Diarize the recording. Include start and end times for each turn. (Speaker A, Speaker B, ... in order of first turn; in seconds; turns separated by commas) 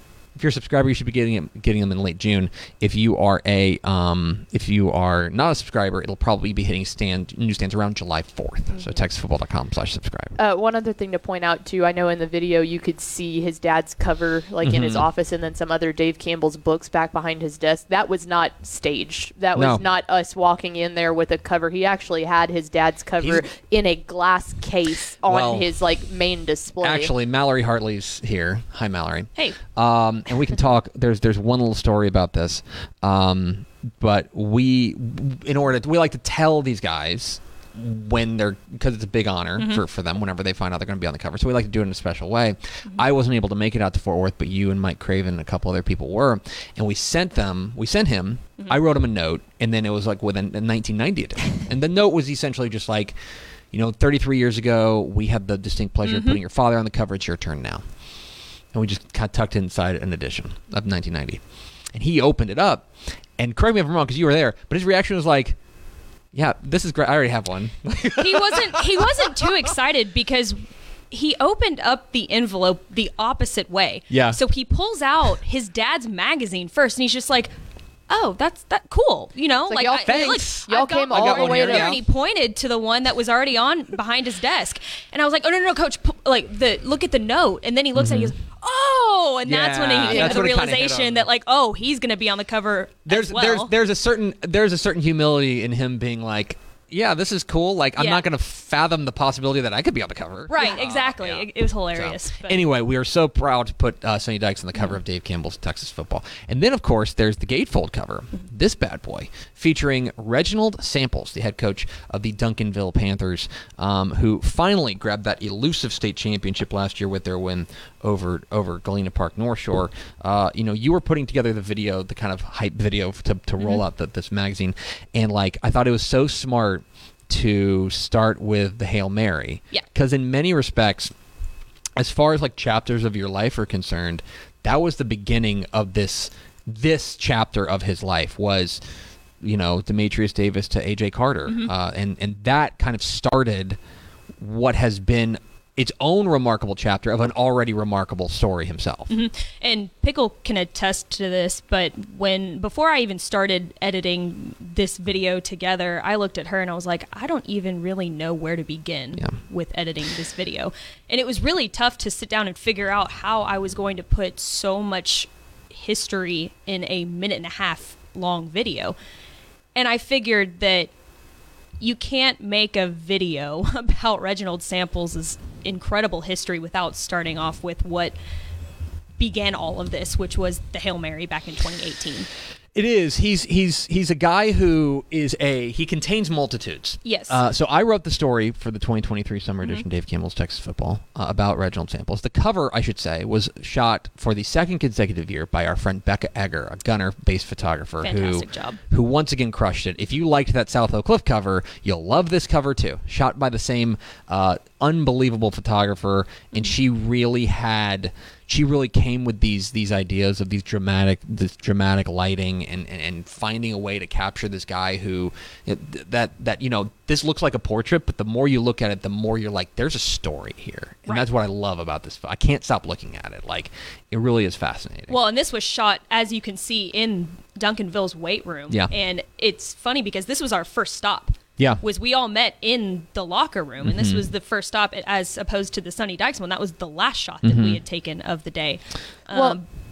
Speaker A: 0.3-10.4, Speaker B: 8.8-9.0, Speaker C: 10.4-27.1, Speaker A: 14.6-15.1, Speaker A: 19.6-19.8, Speaker A: 23.2-23.4, Speaker A: 25.3-25.7, Speaker A: 26.8-53.2, Speaker B: 39.6-39.8, Speaker A: 53.7-57.9, Speaker B: 56.0-56.4, Speaker A: 58.7-65.6, Speaker A: 66.3-69.6, Speaker B: 68.2-70.6, Speaker B: 71.1-77.5, Speaker A: 74.1-74.4, Speaker B: 78.1-93.7, Speaker C: 79.7-81.9, Speaker A: 79.9-82.0, Speaker A: 88.0-88.3, Speaker A: 89.5-91.3, Speaker C: 90.1-90.4, Speaker A: 93.1-131.1, Speaker B: 98.0-98.2, Speaker B: 100.5-102.6, Speaker B: 123.6-123.8, Speaker A: 132.0-138.8, Speaker A: 139.4-143.8, Speaker B: 141.5-141.7, Speaker A: 144.4-149.1, Speaker B: 149.1-169.0, Speaker B: 169.8-170.9, Speaker B: 171.8-178.2, Speaker B: 179.2-182.3, Speaker A: 182.7-225.2, Speaker B: 187.1-187.4, Speaker B: 198.0-198.8, Speaker B: 225.1-239.7, Speaker A: 231.6-231.8, Speaker A: 233.8-234.3, Speaker A: 237.4-237.8, Speaker C: 239.3-239.6